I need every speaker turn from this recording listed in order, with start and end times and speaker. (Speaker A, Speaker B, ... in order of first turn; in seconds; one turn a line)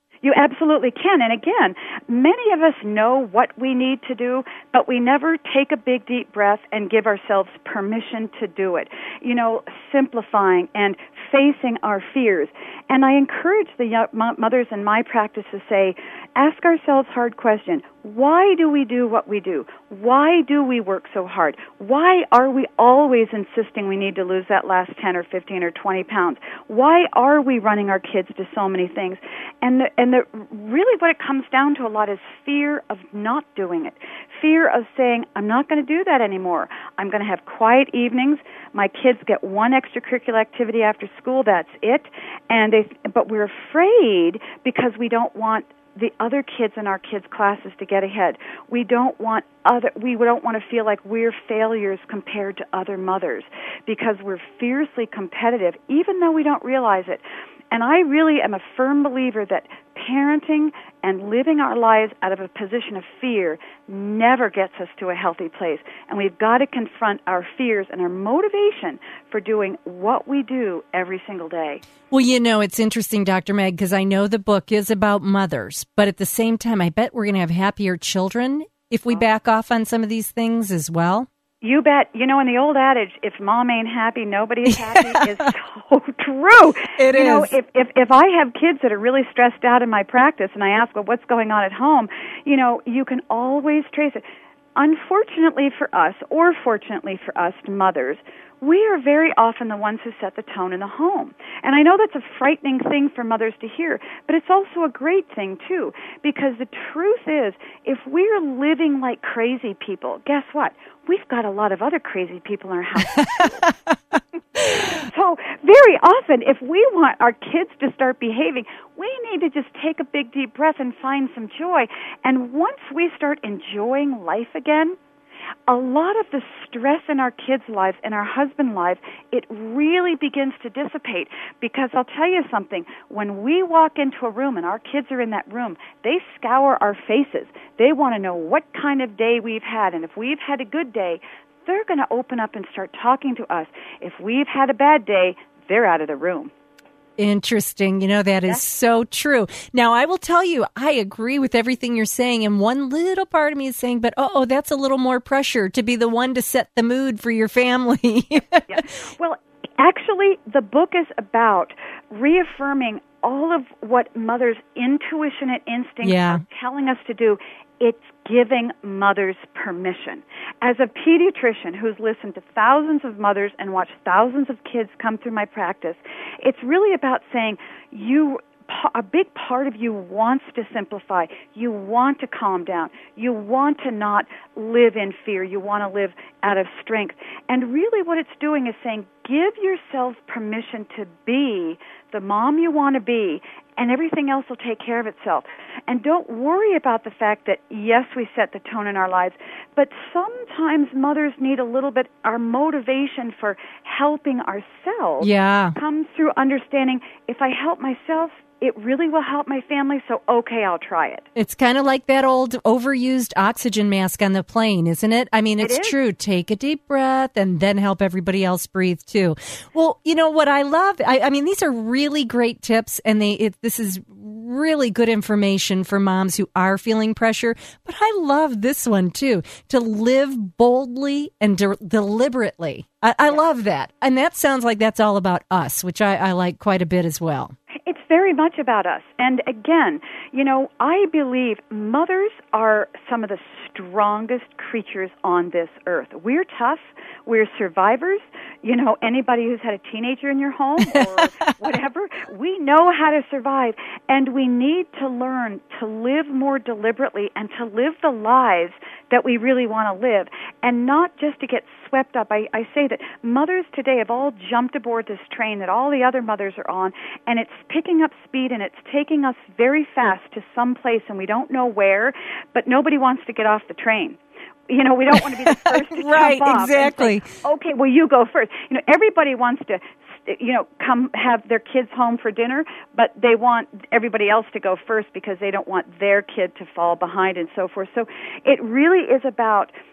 Speaker A: 0.2-71.8
Speaker B: 72.1-81.3
Speaker A: 81.6-94.2
Speaker B: 84.9-85.5
Speaker B: 87.0-87.5
Speaker A: 94.8-113.7
Speaker B: 113.1-113.5
Speaker A: 114.6-125.0
Speaker A: 125.7-146.5
Speaker B: 147.2-158.8
Speaker A: 158.7-211.2
Speaker B: 166.0-166.4
Speaker B: 205.2-205.8
Speaker B: 211.3-237.5
Speaker A: 215.6-216.0
Speaker A: 237.8-289.7
Speaker B: 250.9-251.4
Speaker B: 275.1-277.3